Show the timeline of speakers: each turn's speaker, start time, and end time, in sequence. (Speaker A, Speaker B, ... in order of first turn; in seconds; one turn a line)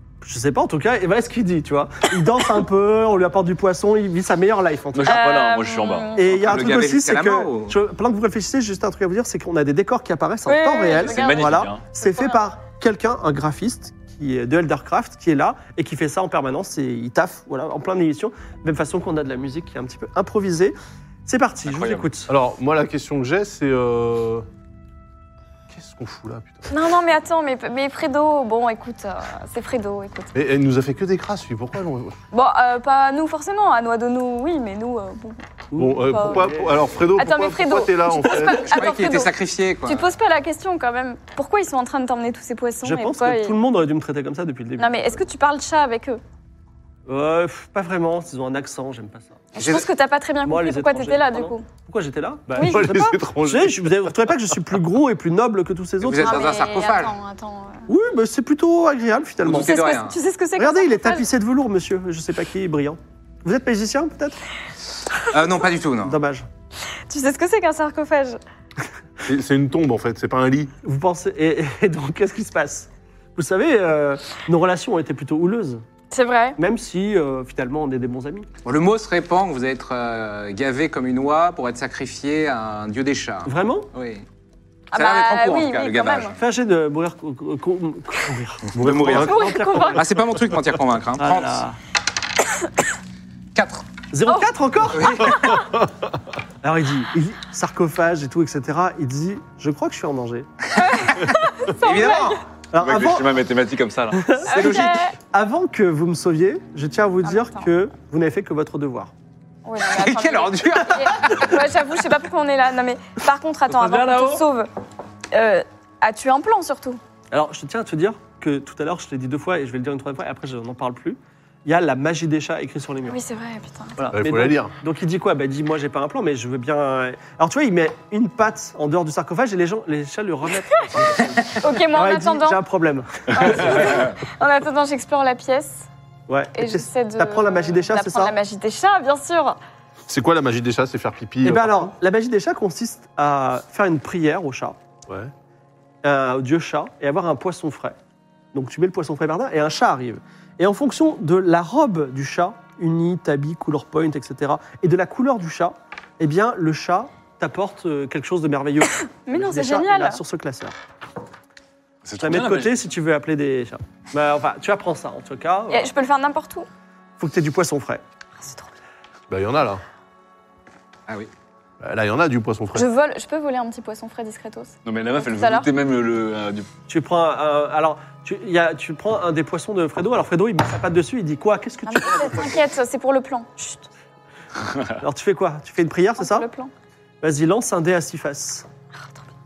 Speaker A: 0.2-5.3
Speaker B: 4.9-6.1
Speaker C: 5.1-6.3
Speaker A: 6.2-22.3
Speaker D: 6.3-7.8
Speaker C: 10.4-12.4
Speaker B: 11.0-11.8
Speaker B: 21.6-22.1
Speaker E: 22.3-24.5
Speaker E: 25.7-26.7
Speaker C: 26.7-30.3
Speaker E: 30.3-32.2
Speaker C: 32.3-35.5
Speaker A: 35.7-36.8
Speaker E: 35.8-38.7
Speaker C: 36.0-36.5
Speaker C: 37.1-39.3
Speaker D: 38.4-40.1
Speaker C: 39.8-43.5
Speaker A: 42.8-45.2
Speaker C: 44.8-46.2
Speaker A: 47.1-49.4
Speaker C: 49.5-51.6
Speaker D: 49.6-49.9
Speaker A: 50.4-56.5
Speaker C: 52.5-52.8
Speaker E: 52.6-54.1
Speaker D: 56.0-57.2
Speaker C: 56.2-57.9
Speaker A: 57.9-59.8
Speaker D: 59.4-60.2
Speaker C: 59.5-61.3
Speaker A: 60.5-64.4
Speaker D: 65.3-66.2
Speaker A: 66.0-66.5
Speaker C: 67.1-68.4
Speaker E: 69.2-70.7
Speaker A: 70.8-75.8
Speaker C: 76.1-76.6
Speaker A: 76.6-78.5
Speaker D: 78.6-84.2
Speaker A: 83.4-83.9
Speaker C: 84.9-86.3
Speaker D: 84.9-86.4
Speaker A: 86.4-90.1
Speaker D: 88.7-91.6
Speaker E: 88.8-89.2
Speaker C: 89.1-90.0
Speaker A: 91.2-91.8
Speaker D: 93.5-93.9
Speaker A: 94.1-95.5
Speaker D: 94.9-95.6
Speaker C: 95.0-95.5
Speaker A: 96.6-100.5
Speaker C: 100.8-102.4
Speaker D: 101.7-102.4
Speaker A: 102.7-103.3
Speaker B: 102.8-104.4
Speaker A: 104.1-109.1
Speaker C: 104.4-105.1
Speaker D: 104.5-105.1
Speaker C: 107.2-107.7
Speaker C: 109.6-114.7
Speaker D: 109.8-111.6
Speaker B: 113.7-114.5
Speaker C: 115.3-117.0
Speaker A: 117.3-123.2
Speaker C: 123.1-124.0
Speaker A: 124.0-134.1
Speaker E: 124.1-124.7
Speaker C: 131.6-132.6
Speaker C: 133.3-135.8
Speaker A: 136.3-138.3
Speaker C: 136.6-139.6
Speaker E: 140.1-141.9
Speaker A: 141.4-144.8
Speaker E: 145.1-145.3
Speaker A: 146.0-148.0
Speaker A: 148.5-160.7
Speaker C: 159.0-160.2
Speaker B: 162.0-162.9
Speaker A: 162.2-165.9
Speaker C: 165.7-166.7
Speaker A: 167.2-168.0
Speaker C: 168.4-168.7
Speaker E: 169.3-169.8
Speaker E: 171.8-172.9
Speaker C: 172.7-175.7
Speaker B: 174.8-176.7
Speaker A: 176.9-182.6
Speaker C: 181.8-183.8
Speaker A: 185.0-186.5
Speaker C: 186.2-186.7
Speaker A: 187.2-188.7